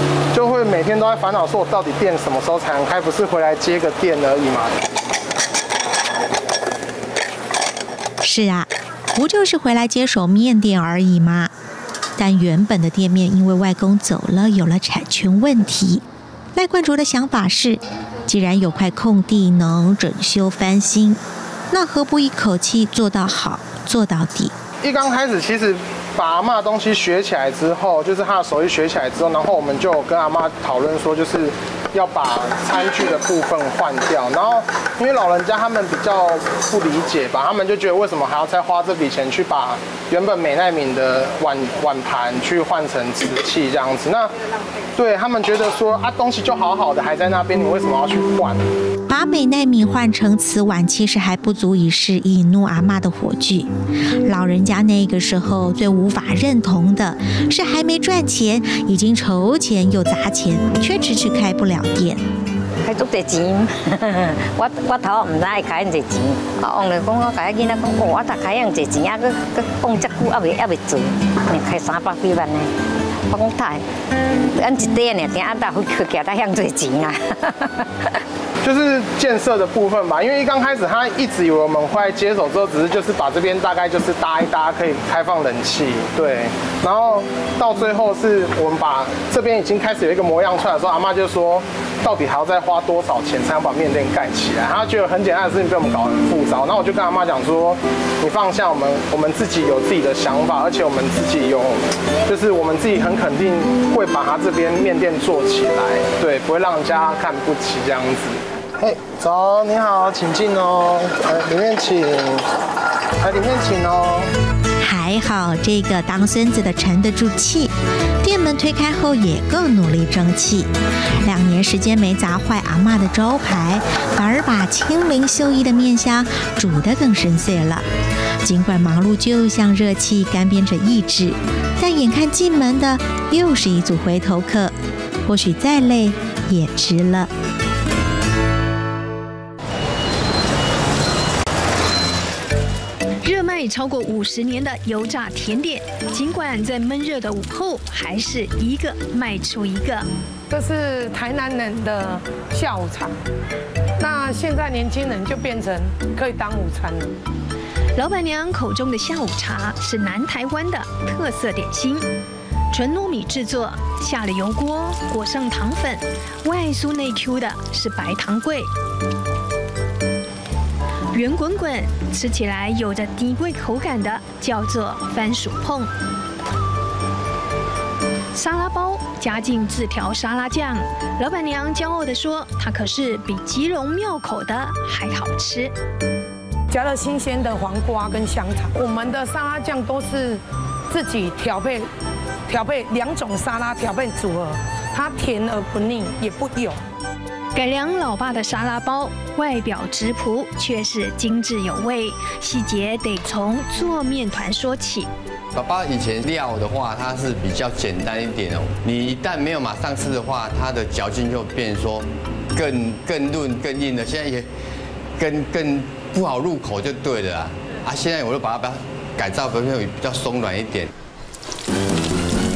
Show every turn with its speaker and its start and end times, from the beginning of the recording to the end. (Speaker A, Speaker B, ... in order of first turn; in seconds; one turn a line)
Speaker A: 0.3-4.7
Speaker B: 8.2-11.5
Speaker B: 12.2-16.0
Speaker B: 16.6-24.5
Speaker A: 24.8-44.3
Speaker A: 45.0-48.6
Speaker B: 49.1-53.7
Speaker B: 54.2-62.2
Speaker C: 62.9-72.7
Speaker C: 73.3-73.8
Speaker C: 74.5-77.7
Speaker A: 78.6-112.4
Speaker A: 113.2-114.3
Speaker B: 114.8-127.9
Speaker B: 128.4-134.7
Speaker B: 135.3-137.3
Speaker D: 143.2-150.1
Speaker E: 150.5-153.1
Speaker E: 154.0-157.2
Speaker D: 157.9-162.1
Speaker D: 162.7-168.7
Speaker D: 171.1-175.9
Speaker D: 178.3-185.7
Speaker E: 186.7-191.9
Speaker E: 192.5-196.8
Speaker D: 197.6-205.1
Speaker F: 205.6-214.4
Speaker F: 215.2-220.9